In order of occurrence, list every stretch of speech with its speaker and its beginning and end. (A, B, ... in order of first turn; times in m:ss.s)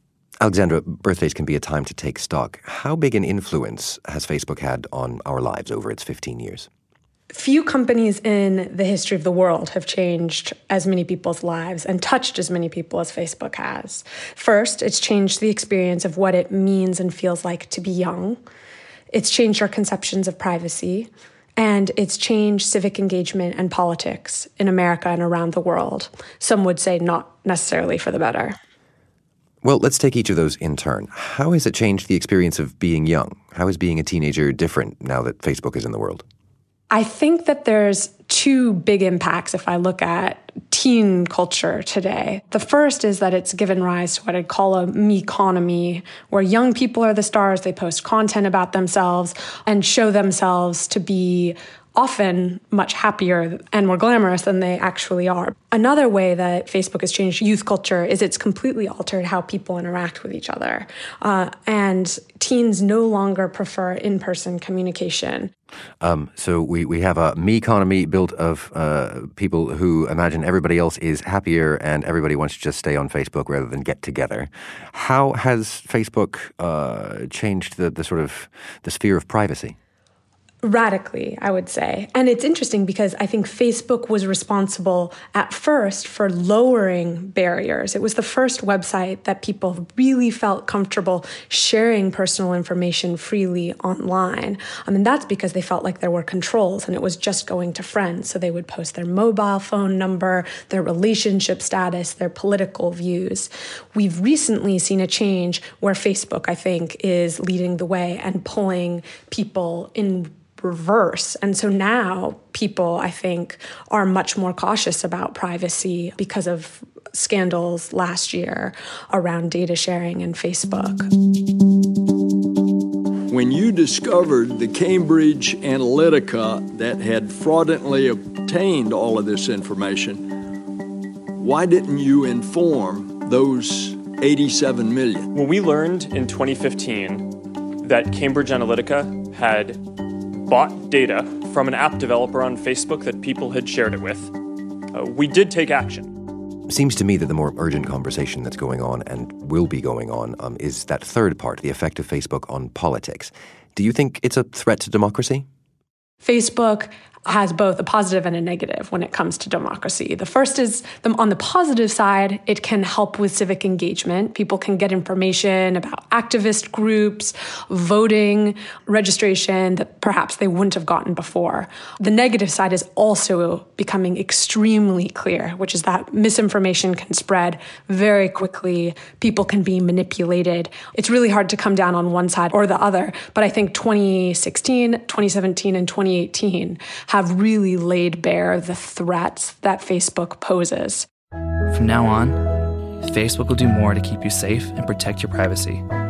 0:00.4-0:06.7 A
0:07.3-0:18.4 B
0:19.1-0:28.5 B
0:29.6-0:36.2 A
0:36.9-1:05.5 B
1:06.0-1:19.7 A
1:20.6-2:01.1 B
2:03.3-2:10.3 C
2:11.3-2:15.3 C
2:15.3-2:26.3 D
2:26.7-2:35.4 A
2:36.2-3:11.0 B
3:11.7-3:12.4 E
3:13.0-3:15.8 E